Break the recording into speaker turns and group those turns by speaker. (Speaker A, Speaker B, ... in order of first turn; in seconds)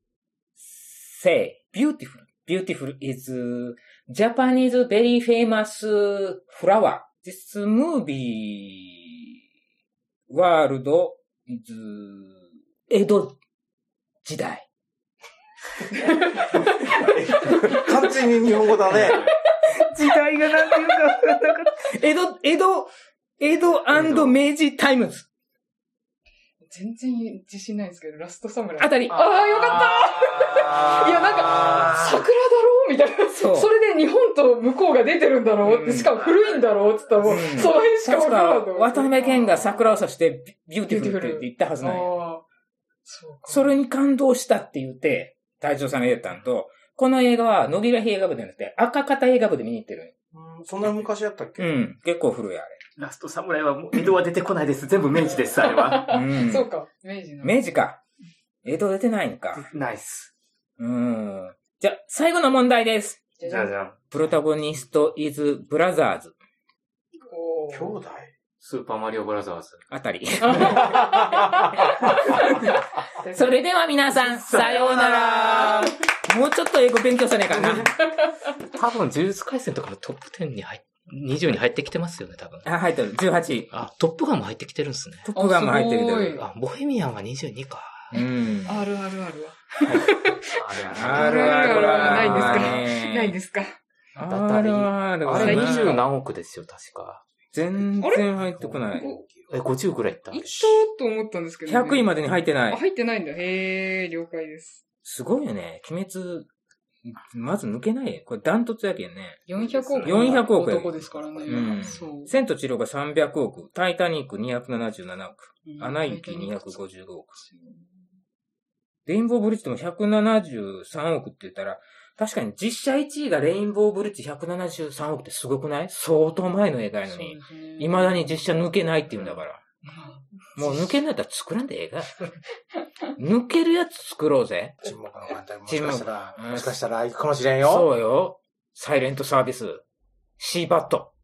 Speaker A: 0.6-9.2, 10.3-13.4, 14.2-14.7, 18.9-19.2, 19.8-25.3, 28.8-29.3, 33.3-33.7, 35.6-36.2, 37.2-42.1, 43.5-50.1, 51.6-52.8, 56.1-56.7, 57.4-58.0, 58.6-59.7, 60.8-63.2, 64.1-66.4, 69.9-70.9, 72.4-72.8, 73.3-77.9, 82.7-83.7, 85.3-86.4, 88.1-88.9, 90.9-93.4, 94.2-96.0, 97.5-99.1, 101.7-102.8, 105.0-106.5, 107.1-109.5, 110.0-110.9, 111.5-117.4, 119.1-129.6, 130.6-132.3, 133.2-134.8, 135.7-136.8, 137.6-139.8, 140.4-141.1
Speaker B: 15.9-17.6, 26.7-39.6, 40.9-42.5, 43.0-43.8, 55.5-57.6, 63.4-63.7, 67.2-68.0, 70.5-72.4, 73.2-73.6, 74.8-75.9, 85.3-86.5, 88.7-90.4, 91.0-93.8, 95.3-96.0, 98.9-99.2, 100.3-102.1, 102.7-104.8, 109.5-112.3, 115.7-116.8, 117.4-117.9, 127.1-128.6, 129.9-130.9
Speaker C: 16.9-19.3, 50.3-51.7, 67.7-68.3, 70.8-71.6, 97.8-99.6, 100.4-100.7, 134.8-137.9
Speaker D: 18.9-19.3, 23.9-24.4, 53.0-56.2, 59.5-60.3, 63.5-64.0, 68.6-69.9, 74.4-75.6, 78.7-82.7, 83.7-85.3, 86.4-88.2, 89.9-92.9, 94.2-97.3, 99.5-100.7, 109.5-110.5, 111.1-112.0, 129.1-129.4